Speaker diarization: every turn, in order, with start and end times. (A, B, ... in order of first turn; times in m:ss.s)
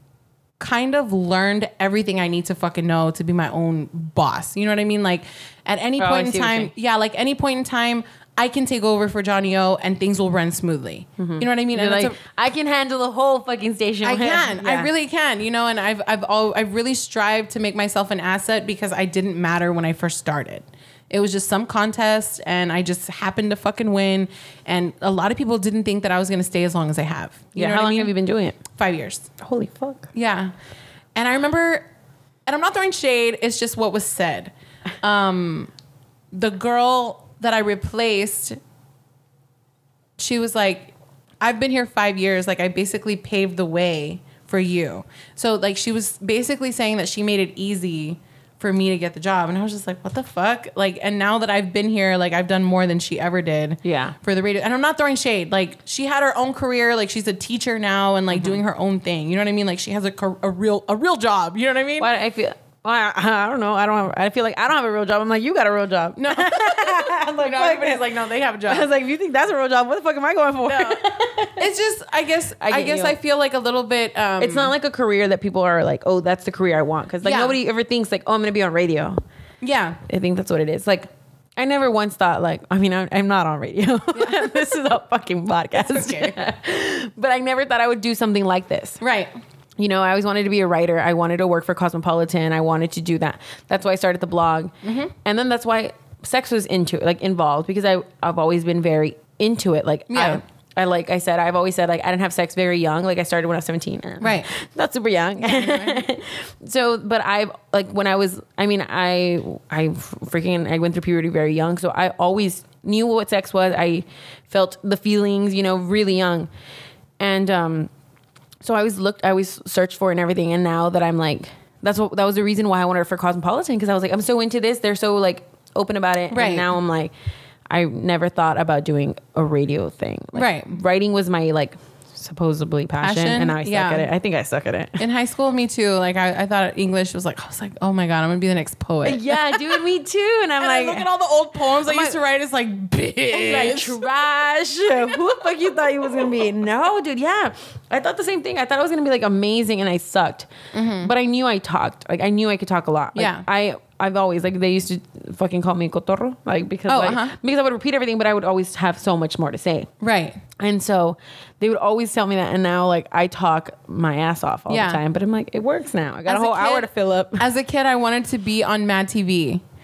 0:00.6-0:12.2 A
0:06.0-0:06.7 B
0:11.2-0:14.9 B
0:14.0-0:28.1 A
0:27.6-0:28.6 B
0:28.7-0:29.3 A
0:29.4-0:30.1 B
0:30.1-0:30.5 A
0:31.2-0:31.9 A
0:32.5-0:35.7 A
0:36.3-0:38.6 A
0:40.2-1:02.1 A
0:53.8-0:54.2 B
1:02.0-1:08.1 B
1:06.2-1:08.9 A
1:08.7-1:11.6 B
1:10.7-1:14.7 A
1:12.6-1:13.2 B
1:14.4-1:19.2 B
1:17.2-1:17.6 A
1:19.6-1:20.0 A
1:20.1-1:29.0 B
1:24.2-1:24.7 A
1:25.8-1:26.4 A
1:29.0-1:29.3 A
1:29.8-1:56.5 B
1:34.8-1:35.1 A
1:40.1-1:40.4 A
1:44.2-1:44.5 A
1:45.4-1:46.1 A
1:57.2-1:57.9 B
1:58.6-2:07.1 B
2:06.3-2:06.7 A
2:07.7-2:15.0 B
2:10.3-2:10.8 A
2:13.0-2:14.1 A
2:15.0-2:19.8 A
2:19.0-2:21.1 B
2:20.6-2:24.0 A
2:21.8-2:22.2 B
2:23.3-2:39.9 B
2:30.7-2:31.1 A
2:33.2-2:33.4 A
2:36.9-2:37.4 A
2:40.0-2:40.4 A
2:40.6-2:47.4 B
2:44.7-2:45.0 A
2:46.3-2:49.6 A